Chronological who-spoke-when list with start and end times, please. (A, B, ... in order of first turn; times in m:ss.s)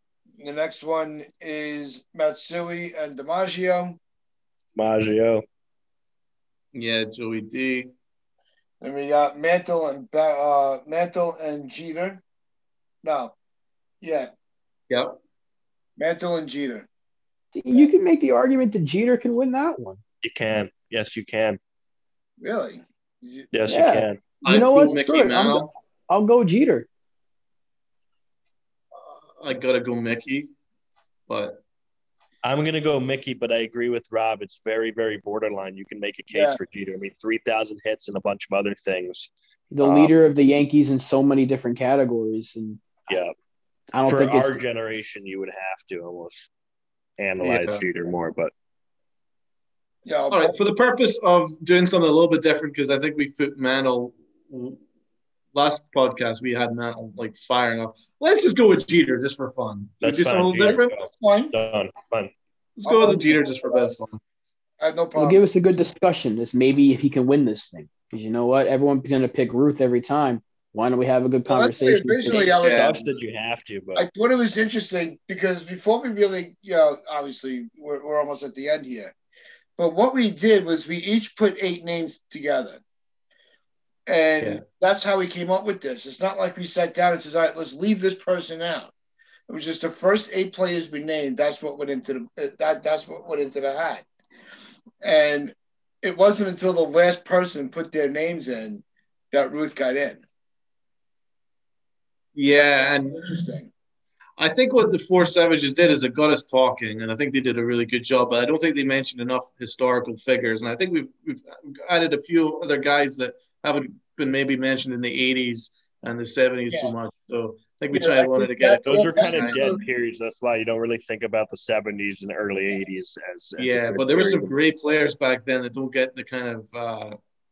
0:00.4-0:04.0 A
0:04.8-0:05.4 B
0:06.7-0:07.9 C
0:08.8-0:12.2 A
0:13.0-0:13.4 A
0:14.0-0:14.3 A
0:14.9-0:15.2 C
0:16.0-0:16.9 A
0:17.5-0:20.0 D
0:20.2-0:21.6 B
0:22.4-0:23.5 A
0:23.5-0:24.2 B
0:23.7-0:26.9 D
0:24.4-0:25.7 C
0:29.3-0:30.5 C
0:31.3-0:31.6 C
0:32.4-0:39.3 B
0:36.3-0:36.6 A
0:39.7-0:42.9 D
0:39.8-0:40.1 B
0:43.1-0:43.3 B
0:43.9-0:44.6 D
0:44.0-0:46.5 B
0:47.2-0:48.5 B
0:47.4-0:47.8 C
0:50.0-0:50.6 A
0:50.3-0:54.8 C
0:55.5-1:00.9 C
1:00.0-1:02.3 B
1:00.6-1:01.5 A
1:02.8-1:04.2 C
1:02.9-1:03.9 A
1:04.8-1:05.5 A
1:05.2-1:12.6 D
1:11.5-1:13.0 A
1:12.5-1:14.0 B
1:12.6-1:12.9 C
1:14.0-1:19.1 A
1:19.8-1:22.8 A
1:24.1-1:28.9 A
1:29.5-1:34.1 A
1:35.0-1:40.2 A
1:42.4-1:43.3 C
1:42.5-1:43.7 A
1:44.4-1:59.7 C
1:57.9-1:59.8 A
1:58.9-2:04.5 B
2:03.6-2:07.2 C